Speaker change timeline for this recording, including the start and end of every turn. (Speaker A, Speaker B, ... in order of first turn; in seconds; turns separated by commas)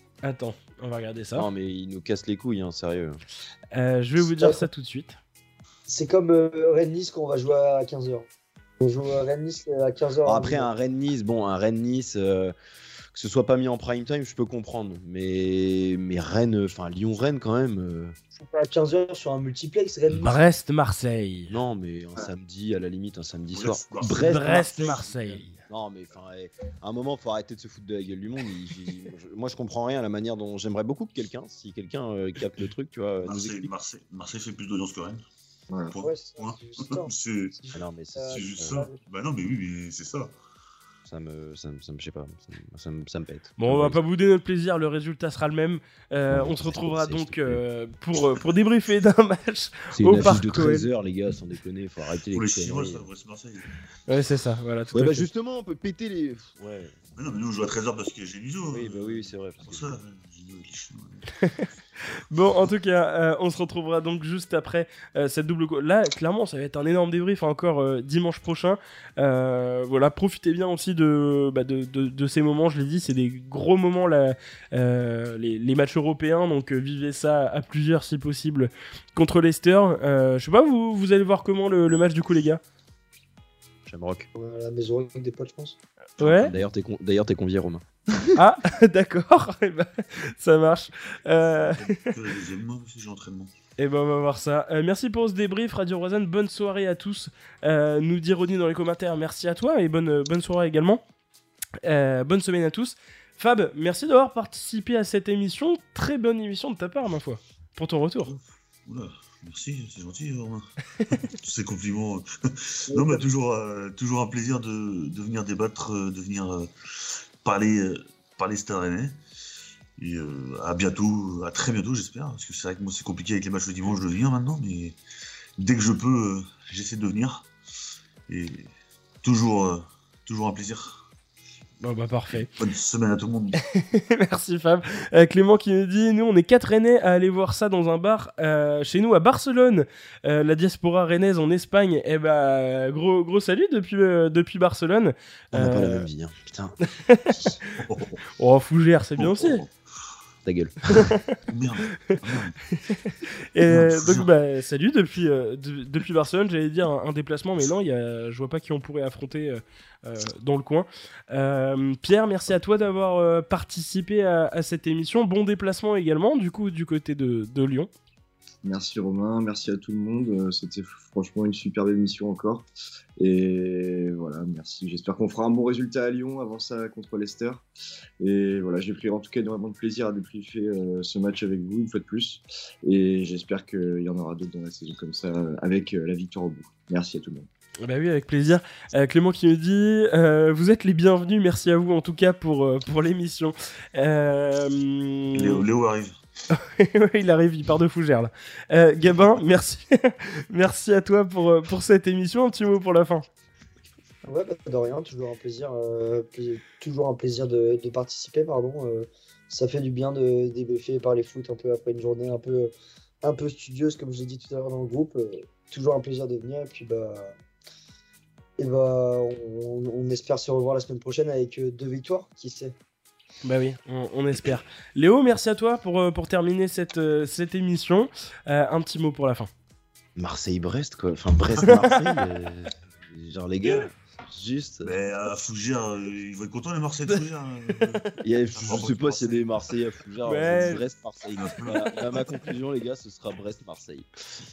Speaker A: 0.2-1.5, Speaker B: 1.3-3.2, Speaker A: 3.7-5.2, Speaker C: 4.4-4.6, Speaker C: 5.9-8.3, Speaker C: 8.8-10.7, Speaker B: 10.2-12.5, Speaker B: 13.1-18.1, Speaker C: 18.4-20.4, Speaker A: 20.2-21.5, Speaker B: 21.5-25.0, Speaker D: 23.5-24.4, Speaker A: 24.0-25.6, Speaker C: 24.5-24.9, Speaker B: 25.5-33.7, Speaker D: 33.2-35.2, Speaker E: 35.7-36.0, Speaker D: 35.9-37.5, Speaker C: 36.0-39.0, Speaker B: 37.7-38.8, Speaker D: 38.3-40.3, Speaker B: 41.0-44.0, Speaker A: 43.6-50.9, Speaker B: 46.3-47.6, Speaker B: 49.9-53.1, Speaker D: 52.3-53.7, Speaker A: 54.1-55.2, Speaker B: 54.9-57.0, Speaker D: 57.1-61.3, Speaker B: 58.7-59.9, Speaker A: 61.4-82.6, Speaker B: 83.8-84.3, Speaker C: 84.3-85.8, Speaker A: 86.2-86.5, Speaker B: 86.2-88.4, Speaker A: 88.3-92.1, Speaker D: 91.6-93.5, Speaker A: 93.8-101.0, Speaker A: 101.8-108.3, Speaker D: 108.3-110.7, Speaker D: 111.2-119.2, Speaker C: 112.9-113.2, Speaker D: 120.0-125.0, Speaker D: 125.6-127.5, Speaker D: 128.3-128.7, Speaker D: 129.2-131.0, Speaker A: 131.8-132.5, Speaker D: 132.3-133.6, Speaker A: 133.6-146.1, Speaker B: 145.5-146.8, Speaker A: 146.9-147.8, Speaker D: 147.8-148.2, Speaker A: 148.4-149.6, Speaker D: 149.2-149.7, Speaker B: 150.4-150.8, Speaker A: 150.9-151.3, Speaker D: 151.5-152.6, Speaker A: 152.8-167.9, Speaker D: 153.6-154.3, Speaker E: 168.6-172.7, Speaker E: 173.2-177.6, Speaker E: 178.2-187.5, Speaker A: 187.8-195.6, Speaker D: 195.3-196.2, Speaker A: 196.5-203.2, Speaker C: 204.2-212.7, Speaker C: 213.2-217.3, Speaker C: 218.6-222.7, Speaker A: 223.4-229.5, Speaker B: 230.2-234.9, Speaker A: 231.7-231.9, Speaker D: 234.8-239.7, Speaker B: 238.2-244.1, Speaker A: 240.2-240.8, Speaker D: 241.3-242.3